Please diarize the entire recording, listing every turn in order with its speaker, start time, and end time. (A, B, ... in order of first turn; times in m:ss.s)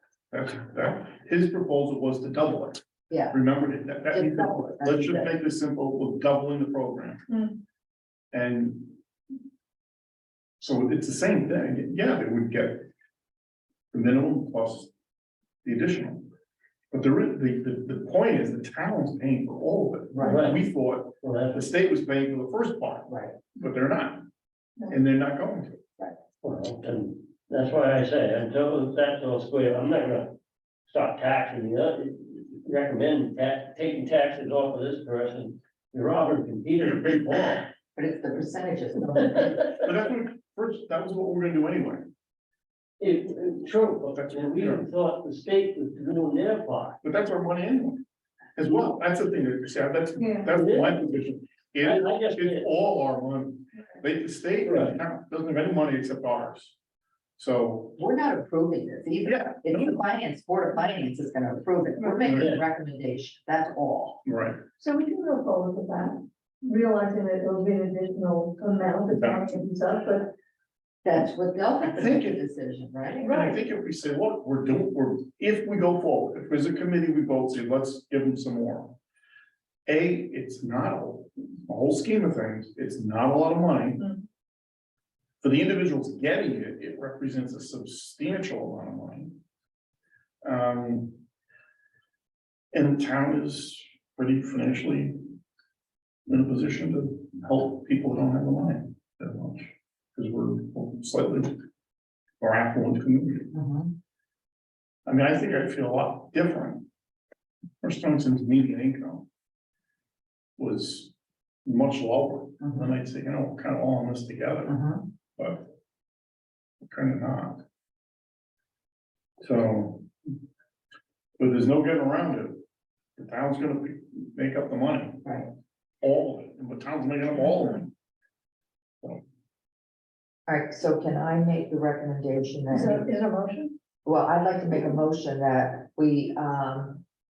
0:00.3-0:07.2 A
0:03.1-0:03.4 B
0:04.1-0:05.3 B
0:08.3-0:09.0 A
0:10.6-0:12.9 A
0:13.9-0:14.9 A
0:15.6-0:16.3 A
0:16.9-0:24.2 A
0:20.1-0:20.4 B
0:20.2-0:20.6 C
0:21.2-0:21.7 C
0:23.1-0:23.4 B
0:24.9-0:25.8 A
0:26.4-0:30.4 C
0:30.9-0:37.6 C
0:38.0-0:39.6 B
0:39.8-0:42.1 A
0:43.0-0:47.0 C
0:44.1-0:44.9 A
0:47.0-0:48.0 A
0:48.6-0:56.8 A
0:50.2-0:50.5 D
0:50.5-0:51.0 C
0:51.8-0:52.7 C
0:54.6-0:55.0 C
0:57.4-0:58.0 A
0:58.0-1:04.2 B
0:59.3-0:59.9 A
1:02.2-1:02.6 A
1:02.3-1:02.6 C
1:04.2-1:04.6 A
1:04.8-1:10.3 D
1:09.1-1:09.6 A
1:11.0-1:13.3 B
1:11.9-1:12.4 A
1:13.2-1:13.6 D
1:13.2-1:19.0 A
1:19.9-1:24.1 A
1:25.4-1:29.4 A
1:30.4-1:31.2 A
1:32.7-1:35.2 A
1:36.3-1:41.6 A
1:42.4-1:43.5 A
1:43.5-1:43.9 B
1:45.1-1:46.8 A
1:47.8-1:49.2 A
1:50.6-1:51.1 A
1:51.6-1:54.8 A
1:52.6-1:52.9 B
1:54.7-1:55.0 B
1:55.4-1:55.7 A
1:56.9-1:57.6 A
1:59.4-2:00.1 A
2:01.4-2:02.6 A
2:03.2-2:05.2 A
2:06.0-2:07.9 A
2:10.5-2:13.0 B
2:12.7-2:13.7 D
2:14.0-2:17.0 B